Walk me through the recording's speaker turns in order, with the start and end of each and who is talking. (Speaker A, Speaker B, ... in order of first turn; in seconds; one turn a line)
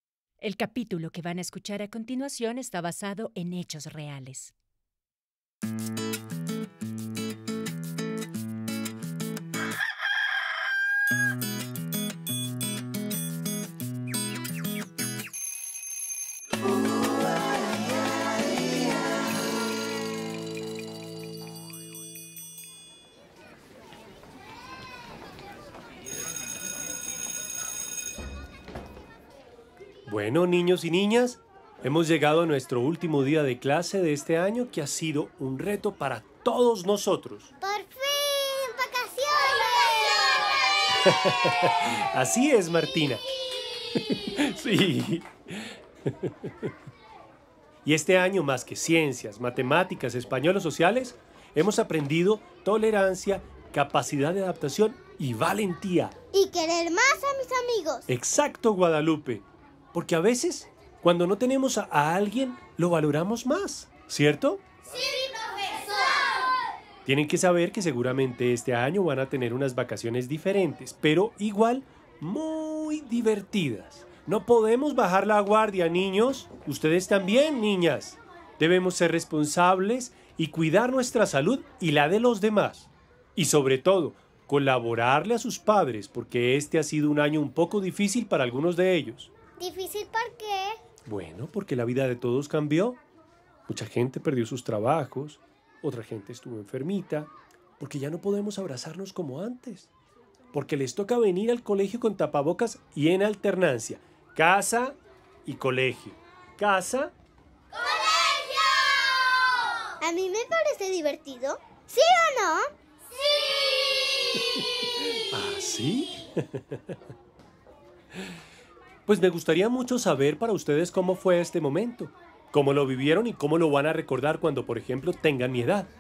Speaker A: 0.4-4.5
Speaker B: 30.1-37.5
Speaker C: 37.6-40.7
Speaker B: 41.0-43.2
Speaker B: 44.0-46.7
Speaker B: 47.9-56.1
Speaker B: 58.1-64.6
Speaker B: 67.0-89.3
Speaker B: 91.1-93.0
Speaker B: 93.7-99.9
Speaker B: 100.5-107.1
Speaker C: 110.0-112.6
Speaker B: 115.3-116.9
Speaker B: 119.1-125.9